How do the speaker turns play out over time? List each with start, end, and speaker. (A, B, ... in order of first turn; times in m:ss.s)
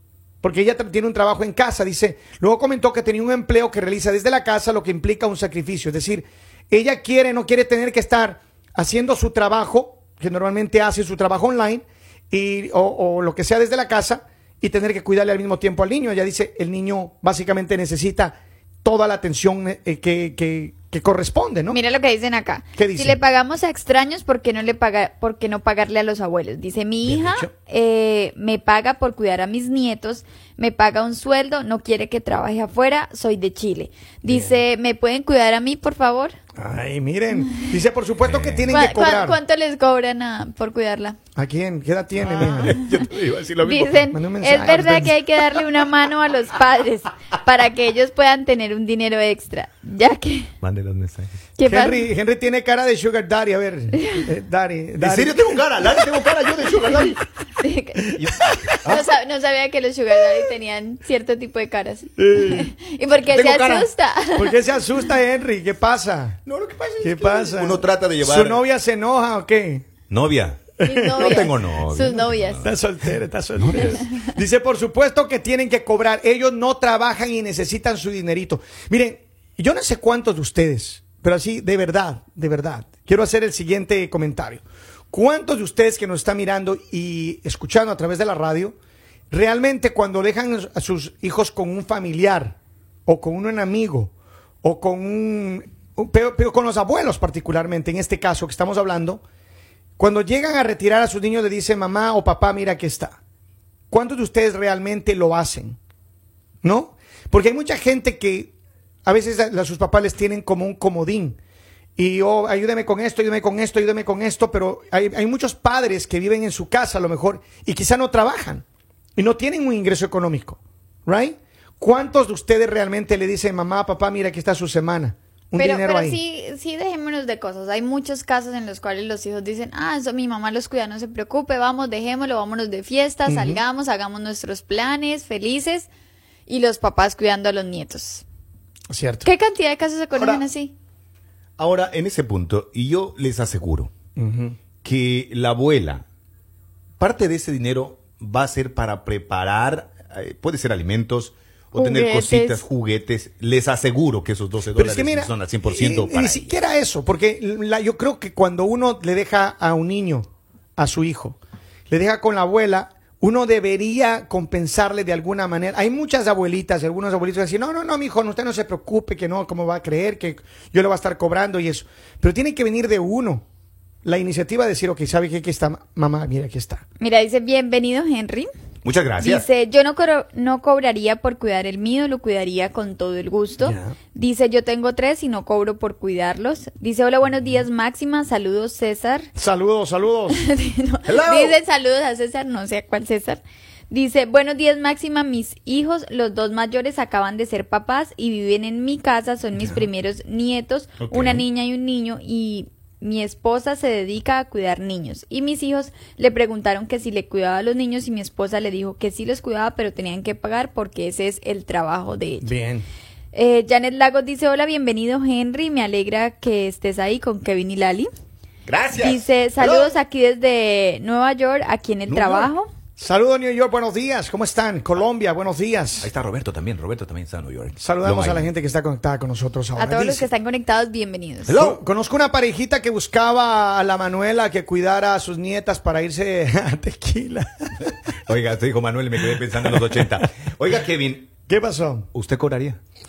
0:00.4-0:21.8 A
0:21.7-0:36.4 B
0:22.8-0:23.2 A
0:27.0-0:27.5 A
0:34.2-0:34.6 A
0:36.6-0:39.4 A
0:38.2-0:38.8 C
0:38.7-0:41.2 B
0:41.4-0:42.8 A
0:42.2-0:44.1 C
0:43.6-0:50.5 B
0:44.1-0:45.2 A
0:50.6-0:51.3 C
0:51.6-0:52.1 B
0:51.6-0:55.9 A
0:55.0-0:57.2 C
0:57.6-0:58.1 B
0:58.2-0:59.0 C
0:58.5-0:58.8 A
0:58.8-1:04.6 B
1:02.2-1:02.7 A
1:03.3-1:03.8 C
1:03.3-1:06.4 A
1:06.4-1:08.6 C
1:07.0-1:09.9 A
1:10.1-1:10.6 C
1:10.8-1:12.6 B
1:10.8-1:11.5 A
1:11.2-1:12.6 C
1:12.6-1:28.8 A
1:13.6-1:14.0 C
1:29.3-1:39.2 A
1:40.0-1:43.2 A
1:43.9-1:45.8 A
1:46.6-1:48.5 A
1:49.0-1:51.4 A
1:52.0-1:58.6 A
1:59.2-2:06.2 A
2:05.6-2:15.9 B
2:13.3-2:13.6 A
2:16.5-2:18.2 B
2:18.9-2:19.3 A
2:19.2-2:20.7 B
2:20.1-2:20.4 C
2:21.6-2:23.9 C
2:24.2-2:24.6 A
2:24.8-2:26.0 C
2:27.0-2:36.6 C
2:31.8-2:32.6 B
2:34.7-2:41.4 A
2:41.9-2:53.4 A
2:54.0-2:56.8 A
2:57.0-2:58.5 B
2:58.8-2:59.4 C
2:59.2-3:09.3 B
3:03.6-3:03.9 A
3:09.4-3:10.4 A
3:10.3-3:32.5 B
3:11.0-3:11.6 C
3:19.6-3:19.8 A
3:21.0-3:21.4 C
3:32.4-3:32.8 A
3:33.3-3:38.1 B
3:38.7-3:39.9 C
3:38.9-3:42.7 B
3:42.1-3:42.5 C
3:43.0-3:46.1 A
3:46.0-3:48.5 C
3:47.8-3:50.2 A
3:49.8-3:51.6 B
3:51.5-3:51.8 C
3:51.6-3:57.9 A
3:58.3-4:01.3 C
3:59.6-4:00.0 A
4:01.5-4:02.1 A
4:02.1-4:02.8 C